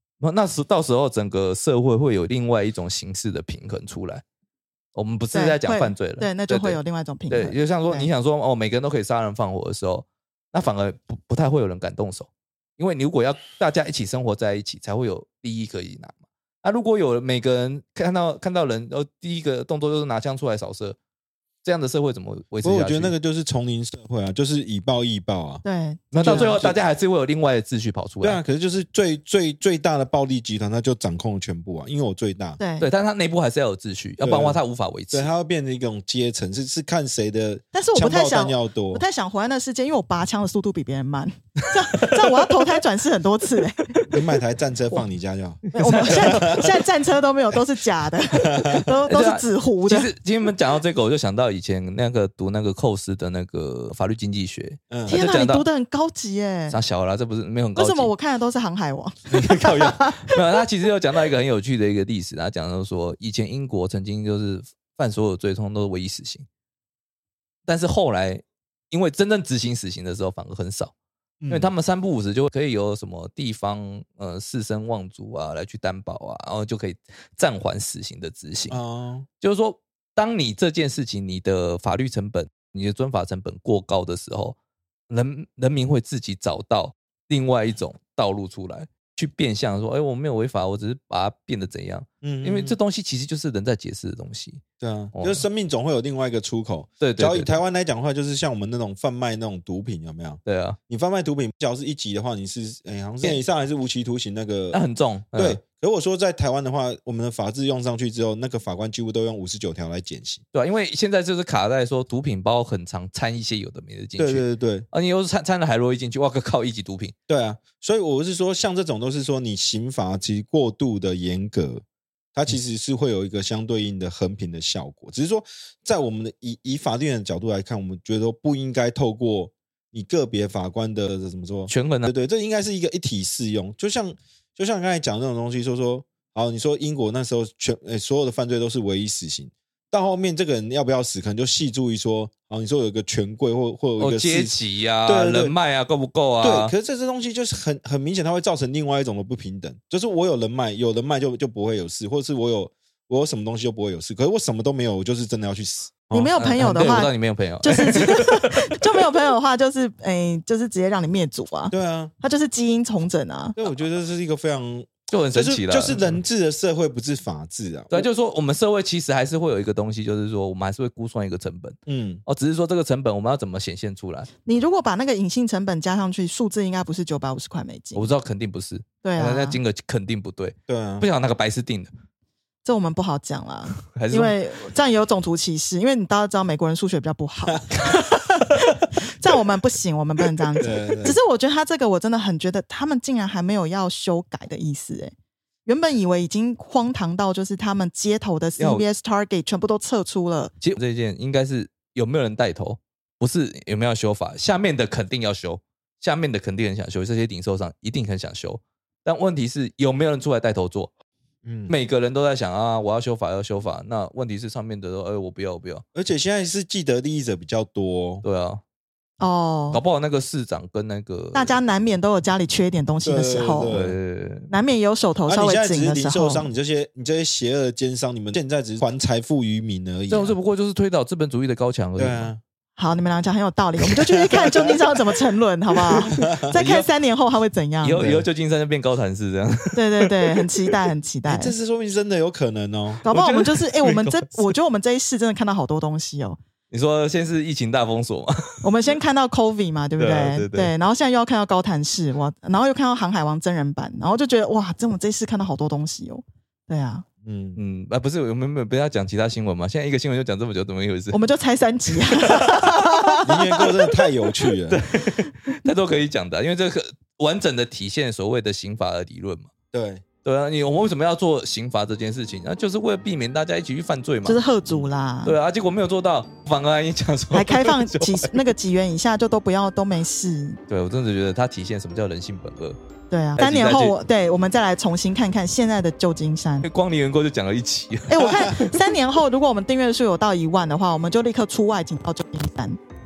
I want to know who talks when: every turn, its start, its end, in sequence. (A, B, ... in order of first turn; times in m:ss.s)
0:00.2-0:04.2 A
0:04.9-0:06.8 A
0:05.3-0:08.1 B
0:07.3-0:21.0 A
0:21.6-0:23.1 A
0:22.6-0:25.6 C
0:25.6-0:26.6 B
0:26.1-0:28.4 A
0:26.1-0:26.8 C
0:28.2-0:32.6 C
0:32.6-0:32.9 B
0:32.8-0:35.3 A
0:34.2-0:34.6 C
0:35.1-0:39.0 C
0:37.7-0:44.0 B
0:41.9-0:42.8 A
0:43.9-0:44.2 A
0:44.1-0:46.7 C
0:45.7-0:46.8 A
0:45.7-0:50.1 B
0:48.4-0:48.9 C
0:49.1-0:55.6 A
0:54.9-0:55.2 C
0:55.1-0:56.8 B
0:56.7-0:58.1 A
0:57.8-1:00.6 B
0:59.3-1:06.4 A
1:07.6-1:10.9 A
1:11.4-1:11.7 C
1:11.5-1:18.8 A
1:18.7-1:19.3 C
1:19.4-1:24.6 A
1:25.1-1:34.6 A
1:32.2-1:32.8 C
1:34.8-1:44.8 C
1:35.1-1:35.4 A
1:37.0-1:37.6 A
1:40.4-1:40.8 A
1:44.7-1:45.6 A
1:45.3-1:50.4 C
1:50.5-1:57.1 A
1:54.2-1:54.8 C
1:57.3-2:01.8 C
2:02.3-2:24.5 C
2:11.7-2:12.1 A
2:24.0-2:26.7 A
2:25.0-2:25.5 C
2:26.4-2:36.3 C
2:36.1-2:43.6 B
2:36.4-2:39.0 A
2:41.7-2:42.1 C
2:43.6-2:48.1 C
2:45.1-2:46.2 A
2:47.9-2:54.3 A
2:51.9-2:52.2 C
2:54.4-2:58.1 B
2:57.9-3:01.9 A
2:59.0-2:59.6 B
3:00.7-3:01.1 C
3:02.6-3:15.1 B
3:03.7-3:04.4 A
3:07.7-3:08.7 A
3:10.6-3:11.0 A
3:10.6-3:11.2 C
3:15.6-3:20.5 B
3:18.6-3:18.8 A
3:20.6-3:30.9 A
3:31.4-3:31.7 C
3:31.7-3:35.8 A
3:35.9-3:38.2 C
3:38.2-3:38.6 A
3:39.2-3:39.8 B
3:39.7-3:41.5 A
3:41.3-3:43.8 B
3:43.0-3:44.0 C
3:43.7-3:44.5 A
3:44.5-3:46.5 B
3:45.3-3:50.4 C
3:50.1-3:52.3 A
3:52.0-3:52.4 C
3:52.8-3:58.0 B
3:54.3-3:54.7 C
3:54.4-3:54.7 A
3:56.0-3:56.9 A
3:56.0-3:56.5 C
3:57.8-4:00.4 A
3:58.0-3:58.3 C
3:59.7-4:01.5 B
4:01.3-4:03.0 C
4:03.0-4:04.5 A
4:03.0-4:06.4 B
4:06.7-4:08.6 A
4:08.6-4:17.0 B
4:10.0-4:10.7 A
4:17.2-4:17.6 C
4:17.6-4:21.2 A
4:21.1-4:23.9 B
4:22.2-4:23.2 A
4:23.2-4:24.8 C
4:24.7-4:29.5 A
4:29.7-4:30.0 C
4:30.2-4:34.4 A
4:34.2-4:35.4 B
4:35.2-4:38.3 A
4:37.3-4:40.6 B
4:40.7-4:42.8 A
4:43.1-4:46.7 B
4:43.4-4:43.9 A
4:46.6-4:48.9 A
4:48.1-4:52.8 B